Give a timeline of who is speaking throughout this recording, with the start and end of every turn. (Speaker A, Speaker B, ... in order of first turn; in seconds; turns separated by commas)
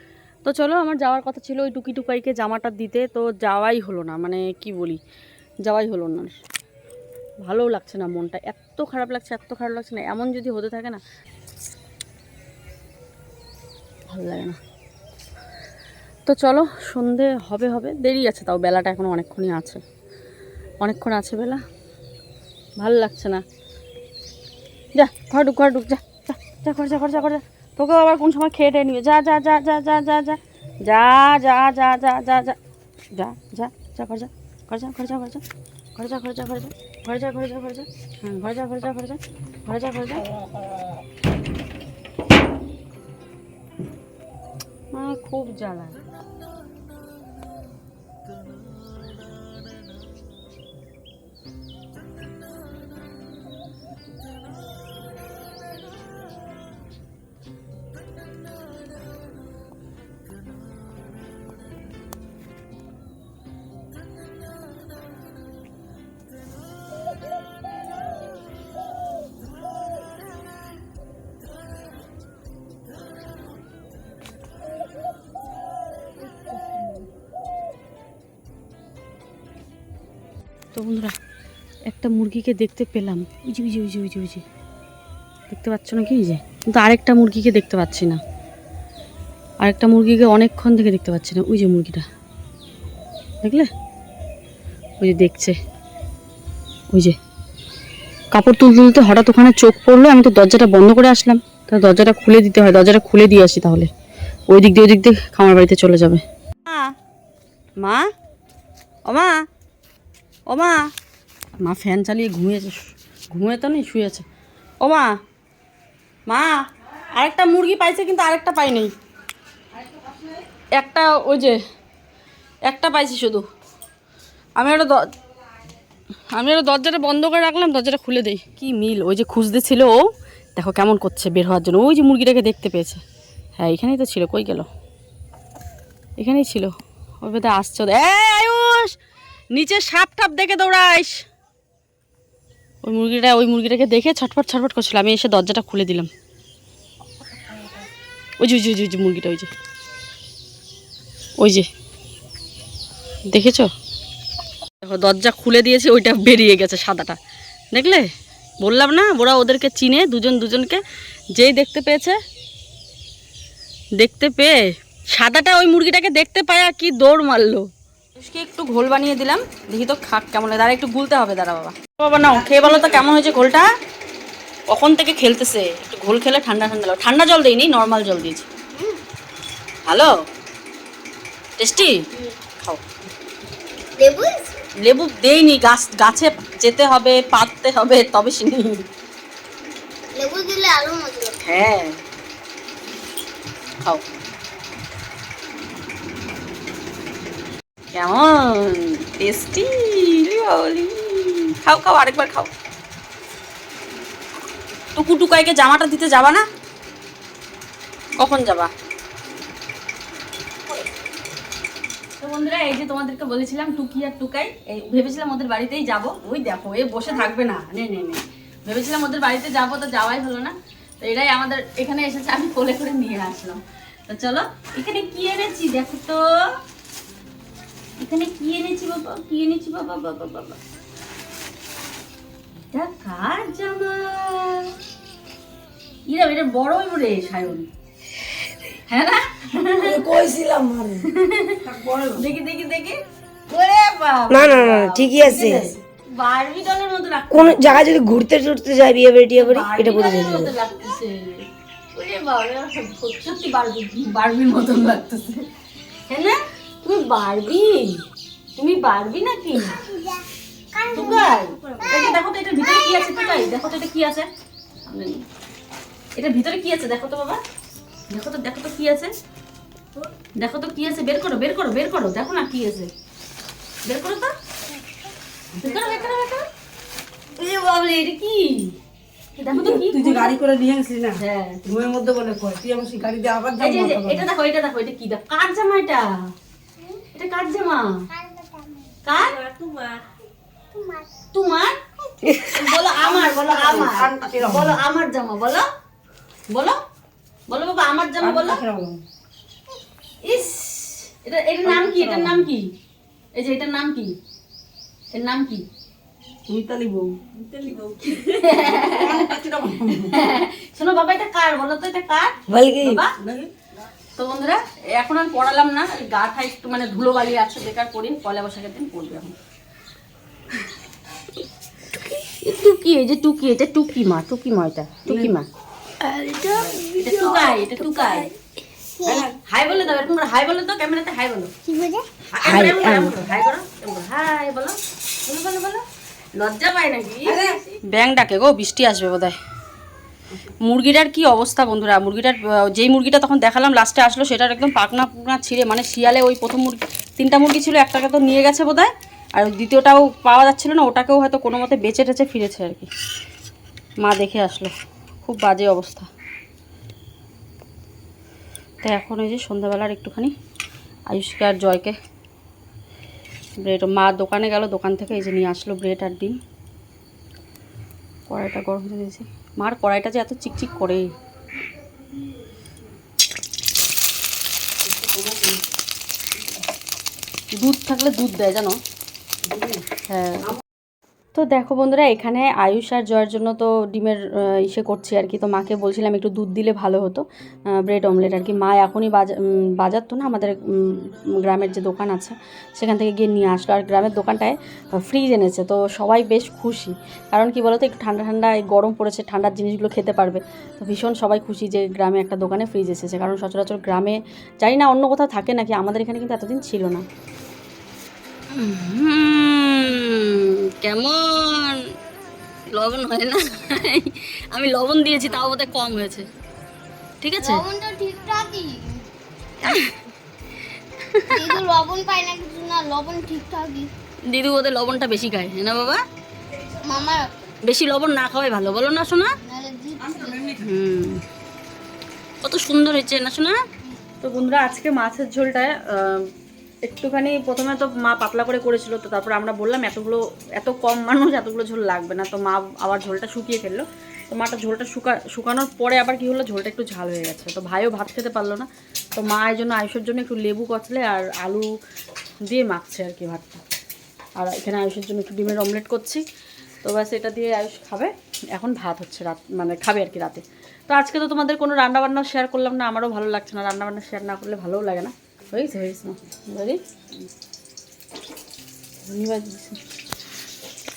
Speaker A: 0.5-5.0, Speaker A: 5.7-6.3, Speaker A: 7.4-11.0, Speaker A: 14.1-14.6, Speaker A: 16.3-19.8, Speaker A: 20.8-21.6, Speaker A: 22.8-23.4, Speaker A: 24.9-32.6, Speaker A: 33.1-35.4, Speaker A: 36.0-40.2, Speaker A: 44.9-46.0, Speaker A: 80.7-81.2, Speaker A: 81.9-84.4, Speaker A: 85.5-88.2, Speaker A: 89.6-92.1, Speaker A: 93.4-93.7, Speaker A: 95.0-95.6, Speaker A: 98.3-103.9, Speaker A: 104.5-106.9, Speaker A: 109.1-109.4, Speaker A: 110.5-110.8, Speaker A: 111.6-112.8, Speaker A: 113.3-114.2, Speaker A: 116.3-116.6, Speaker A: 117.1-118.9, Speaker A: 120.8-121.6, Speaker A: 122.7-123.4, Speaker A: 124.6-125.0, Speaker A: 126.3-129.9, Speaker A: 130.6-133.0, Speaker A: 133.6-134.7, Speaker A: 136.2-138.9, Speaker A: 139.5-141.2, Speaker A: 142.8-146.1, Speaker A: 148.4-149.5, Speaker A: 151.4-151.7, Speaker A: 153.3-153.7, Speaker A: 154.8-157.2, Speaker A: 157.7-158.1, Speaker A: 158.6-160.8, Speaker A: 161.3-162.2, Speaker A: 164.0-164.6, Speaker A: 165.1-173.7, Speaker B: 172.5-173.1, Speaker A: 174.7-178.5, Speaker A: 179.9-180.1, Speaker A: 181.6-182.0, Speaker C: 184.0-184.6, Speaker A: 184.8-188.8, Speaker C: 190.2-191.3, Speaker A: 191.4-192.0, Speaker A: 197.9-202.5, Speaker A: 204.9-206.4, Speaker A: 208.2-208.7, Speaker A: 212.2-226.2, Speaker A: 228.0-230.6, Speaker A: 232.7-234.7, Speaker A: 236.1-237.7, Speaker A: 238.9-240.1, Speaker B: 239.8-241.0, Speaker A: 241.1-243.0, Speaker B: 241.6-242.3, Speaker A: 243.5-248.0, Speaker D: 244.3-245.7, Speaker D: 247.3-250.5, Speaker A: 249.3-251.4, Speaker A: 251.9-255.4, Speaker A: 256.1-258.0, Speaker A: 258.6-259.8, Speaker C: 259.7-263.6, Speaker A: 260.9-264.3, Speaker A: 264.9-265.2, Speaker A: 266.1-267.4, Speaker A: 268.1-269.1, Speaker A: 270.4-272.9, Speaker A: 273.9-274.3, Speaker B: 275.6-276.2, Speaker A: 275.6-276.5, Speaker A: 277.4-278.7, Speaker A: 279.4-280.4, Speaker B: 279.5-284.3, Speaker A: 281.2-281.6, Speaker A: 283.6-286.1, Speaker A: 287.1-288.0, Speaker C: 288.1-288.9, Speaker A: 289.1-289.4, Speaker B: 289.2-290.0, Speaker C: 290.7-291.2, Speaker A: 291.3-291.8, Speaker D: 292.3-292.5, Speaker A: 292.4-295.6, Speaker B: 292.9-294.8, Speaker A: 296.5-296.8, Speaker A: 297.5-298.6, Speaker B: 298.2-299.0, Speaker A: 300.2-302.7, Speaker B: 301.6-302.5, Speaker A: 303.4-304.1, Speaker A: 305.1-305.6, Speaker B: 306.5-310.1, Speaker A: 308.1-309.4, Speaker A: 309.9-313.1, Speaker D: 312.5-313.0, Speaker B: 313.1-313.5, Speaker A: 314.2-319.4, Speaker A: 322.2-325.5, Speaker D: 326.0-326.8, Speaker B: 326.3-327.7, Speaker A: 326.9-328.3, Speaker C: 329.0-329.3, Speaker B: 329.0-329.4, Speaker A: 329.4-331.5, Speaker C: 331.7-332.1, Speaker A: 332.3-335.8, Speaker D: 332.4-333.2, Speaker A: 336.4-339.4, Speaker B: 337.3-337.6, Speaker A: 340.6-352.9, Speaker A: 354.0-356.1, Speaker A: 358.8-360.3, Speaker A: 361.1-362.0, Speaker A: 363.6-366.4, Speaker A: 368.3-371.1, Speaker B: 374.9-375.6, Speaker A: 377.6-378.8, Speaker B: 379.4-379.8, Speaker A: 380.1-380.5, Speaker A: 381.4-387.2, Speaker A: 387.8-407.0, Speaker A: 408.5-411.8, Speaker A: 412.7-416.3, Speaker A: 417.2-417.6, Speaker C: 417.4-419.0, Speaker A: 419.6-420.0, Speaker A: 421.0-421.6, Speaker C: 421.3-423.9, Speaker A: 424.3-426.0, Speaker C: 426.8-427.3, Speaker A: 427.6-429.4, Speaker C: 429.4-430.6, Speaker A: 430.6-431.2, Speaker A: 432.4-433.6, Speaker A: 434.2-436.3, Speaker A: 436.9-451.7, Speaker A: 452.5-453.6, Speaker A: 454.4-456.2, Speaker A: 456.8-466.8, Speaker A: 469.1-469.8